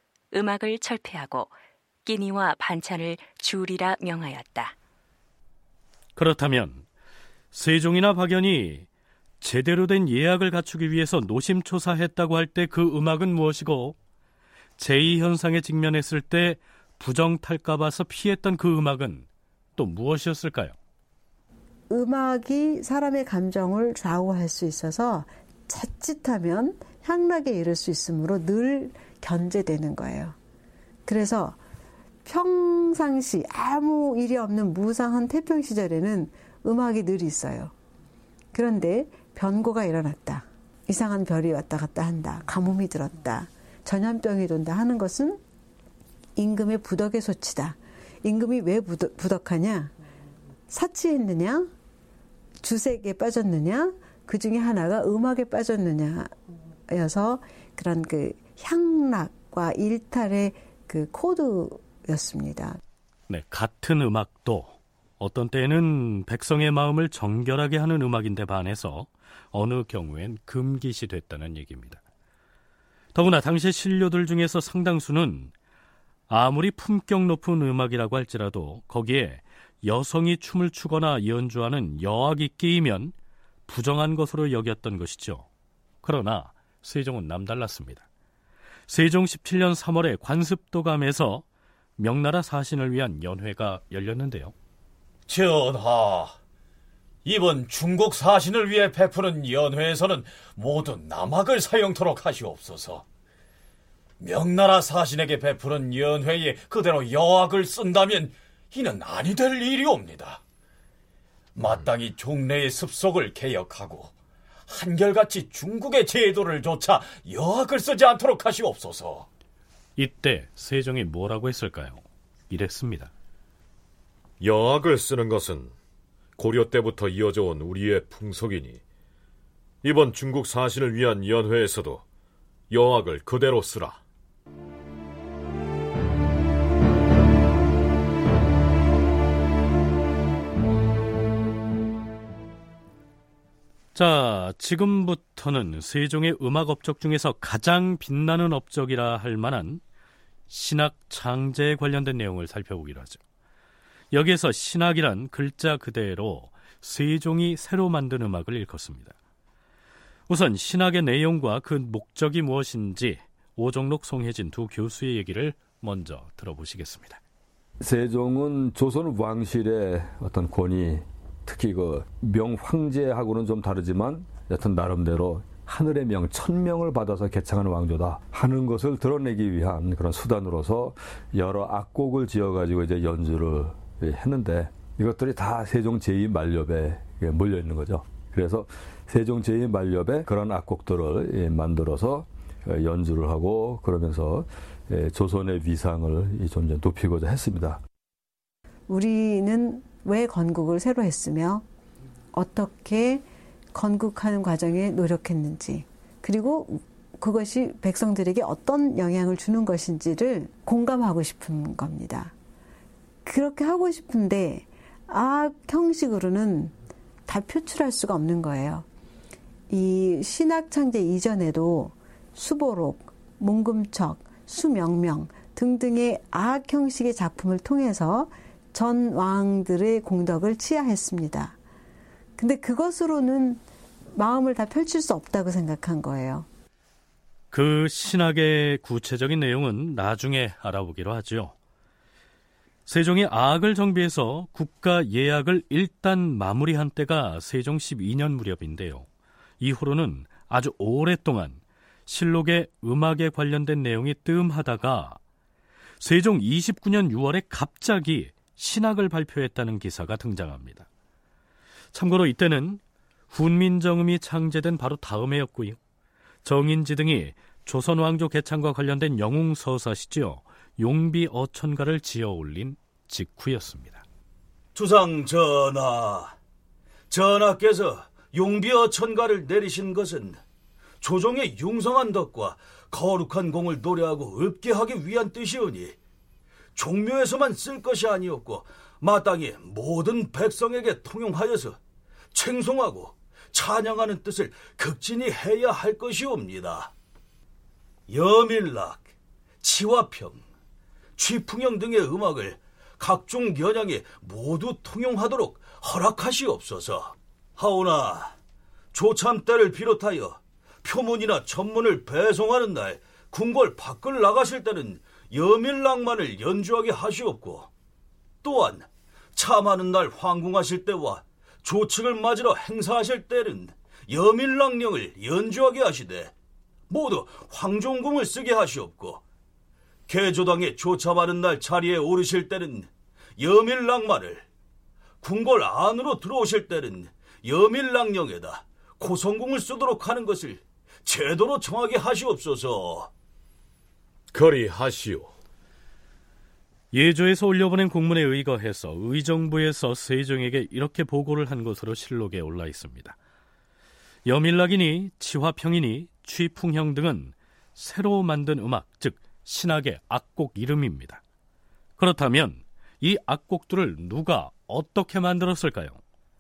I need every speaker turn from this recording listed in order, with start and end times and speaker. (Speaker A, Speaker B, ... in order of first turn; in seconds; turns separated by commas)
Speaker A: 0.3-1.5, Speaker A: 2.0-4.7, Speaker B: 6.2-6.8, Speaker B: 7.5-8.9, Speaker B: 9.4-13.9, Speaker B: 14.8-20.7, Speaker C: 21.9-30.4, Speaker C: 31.1-31.6, Speaker C: 32.2-37.7, Speaker C: 38.5-45.4, Speaker C: 46.4-49.9, Speaker C: 50.7-51.7, Speaker C: 52.6-56.3, Speaker C: 56.9-62.8, Speaker B: 63.3-72.0, Speaker B: 73.1-75.5, Speaker B: 76.3-83.1, Speaker B: 83.7-85.5, Speaker B: 86.0-88.0, Speaker B: 88.9-91.4, Speaker B: 92.0-94.5, Speaker D: 95.3-96.3, Speaker D: 97.2-103.0, Speaker D: 104.2-110.4, Speaker D: 111.5-114.1, Speaker D: 114.7-119.3, Speaker B: 120.0-123.1, Speaker E: 124.4-125.7, Speaker E: 126.4-128.8, Speaker E: 129.8-132.0, Speaker E: 132.7-134.0, Speaker B: 143.9-149.8, Speaker B: 150.5-153.2, Speaker B: 154.1-159.2, Speaker B: 160.3-167.2, Speaker F: 167.8-197.8, Speaker C: 198.9-201.6, Speaker C: 202.3-212.3, Speaker C: 213.2-216.7, Speaker C: 217.3-218.8, Speaker C: 219.7-231.5, Speaker C: 232.4-233.6, Speaker C: 234.1-236.5, Speaker B: 237.5-241.5, Speaker B: 242.8-249.1, Speaker B: 249.6-255.2, Speaker B: 256.0-260.9, Speaker B: 261.9-265.8, Speaker B: 266.4-274.0, Speaker G: 274.7-276.4, Speaker G: 277.1-280.4, Speaker G: 281.0-286.0, Speaker G: 286.7-291.8, Speaker G: 292.3-296.9, Speaker G: 298.1-299.0, Speaker G: 299.6-300.4, Speaker G: 301.2-308.3, Speaker G: 308.9-317.7, Speaker G: 318.4-326.3, Speaker G: 326.9-329.2, Speaker G: 330.1-334.4, Speaker G: 335.2-343.1, Speaker E: 344.3-345.3, Speaker B: 346.9-353.1, Speaker B: 354.2-361.2, Speaker B: 362.0-366.0